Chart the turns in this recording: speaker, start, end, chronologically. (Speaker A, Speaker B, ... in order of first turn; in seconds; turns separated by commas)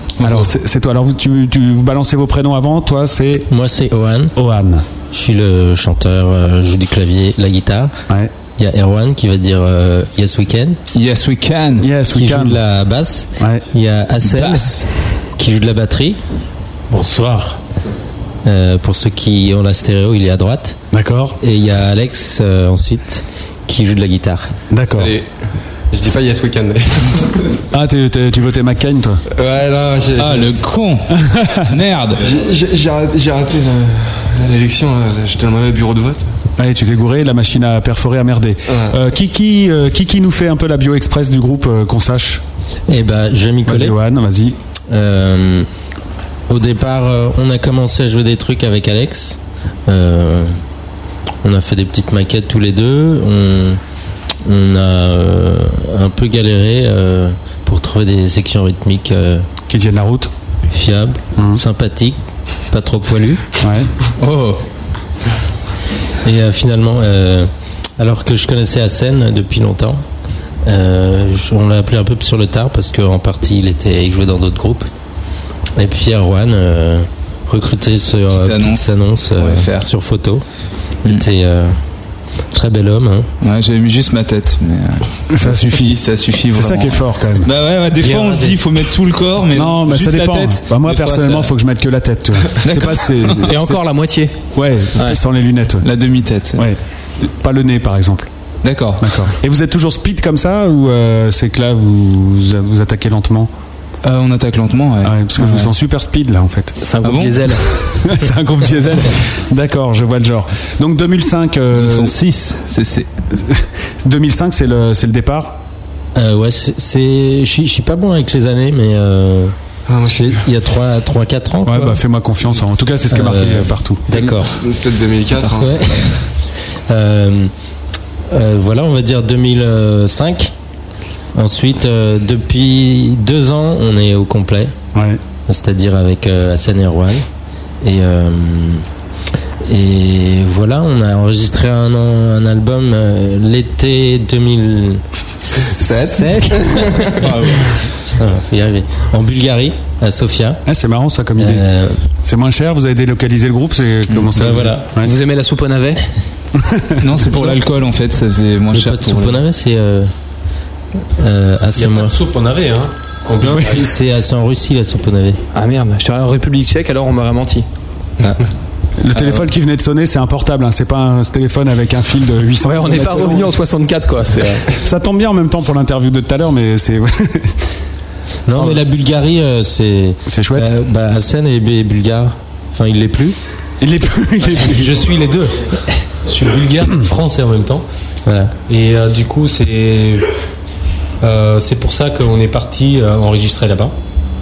Speaker A: 0.2-0.5, Speaker B: 0.2-3.5, Speaker C: 3.5-4.3, Speaker B: 4.3-4.8, Speaker C: 5.1-7.9, Speaker C: 8.6-10.8, Speaker A: 10.9-11.9, Speaker B: 11.8-12.6, Speaker C: 12.1-14.8, Speaker B: 13.4-13.6, Speaker A: 14.2-14.8, Speaker C: 15.4-16.2, Speaker D: 16.9-17.6, Speaker C: 18.4-20.8, Speaker B: 20.9-21.4, Speaker C: 21.4-24.5, Speaker B: 24.7-25.1, Speaker E: 24.9-25.3, Speaker E: 25.9-27.3, Speaker B: 27.7-29.2, Speaker E: 29.3-30.6, Speaker A: 30.2-32.2, Speaker B: 31.2-31.6, Speaker E: 32.2-36.2, Speaker B: 36.6-42.4, Speaker C: 42.9-44.0, Speaker B: 43.6-44.6, Speaker C: 44.9-45.7, Speaker C: 46.5-50.6, Speaker C: 51.4-53.8, Speaker C: 54.4-59.5, Speaker B: 59.7-60.3, Speaker C: 60.7-62.2, Speaker B: 61.4-61.6, Speaker C: 62.7-63.4, Speaker B: 63.6-63.9, Speaker A: 64.2-64.6, Speaker C: 66.2-70.0, Speaker C: 70.6-74.8, Speaker C: 75.8-80.4, Speaker A: 78.3-79.9, Speaker C: 81.1-81.7, Speaker C: 82.5-83.3, Speaker A: 83.4-91.5, Speaker B: 85.3-85.9, Speaker B: 86.5-87.5, Speaker B: 89.5-93.8, Speaker A: 92.6-93.5, Speaker F: 93.5-94.3, Speaker B: 94.5-95.9, Speaker A: 95.8-96.6, Speaker B: 96.5-98.3, Speaker A: 98.6-99.1, Speaker B: 99.0-103.5, Speaker A: 104.0-105.7, Speaker B: 105.0-106.8, Speaker F: 106.8-107.6, Speaker A: 107.0-107.5, Speaker B: 107.8-112.1, Speaker A: 111.7-113.1, Speaker B: 113.4-115.6, Speaker C: 116.1-119.5, Speaker E: 119.9-120.4, Speaker C: 120.1-122.0, Speaker B: 121.6-124.0, Speaker C: 123.1-124.5, Speaker E: 124.1-126.1, Speaker C: 125.4-126.1, Speaker C: 126.9-127.5, Speaker C: 128.3-130.5, Speaker C: 131.3-134.7, Speaker B: 134.9-135.2, Speaker C: 135.5-137.2, Speaker C: 137.8-138.8, Speaker C: 139.7-146.8, Speaker E: 146.5-147.1, Speaker A: 147.2-147.7, Speaker C: 148.0-150.6, Speaker B: 150.7-151.7, Speaker C: 151.4-152.0, Speaker B: 152.2-155.2, Speaker C: 154.3-154.8, Speaker F: 155.0-156.0, Speaker B: 156.5-157.0, Speaker A: 157.0-159.4, Speaker C: 158.7-160.1, Speaker C: 161.2-162.1, Speaker D: 161.8-163.7, Speaker C: 163.4-165.4, Speaker F: 165.5-167.6, Speaker B: 169.0-173.5, Speaker F: 172.6-174.7, Speaker B: 174.8-177.6, Speaker C: 178.5-183.4, Speaker B: 180.3-180.7, Speaker B: 183.8-185.0, Speaker D: 184.5-185.7, Speaker D: 186.2-187.8, Speaker C: 188.2-188.5, Speaker D: 188.7-190.3, Speaker D: 191.2-193.9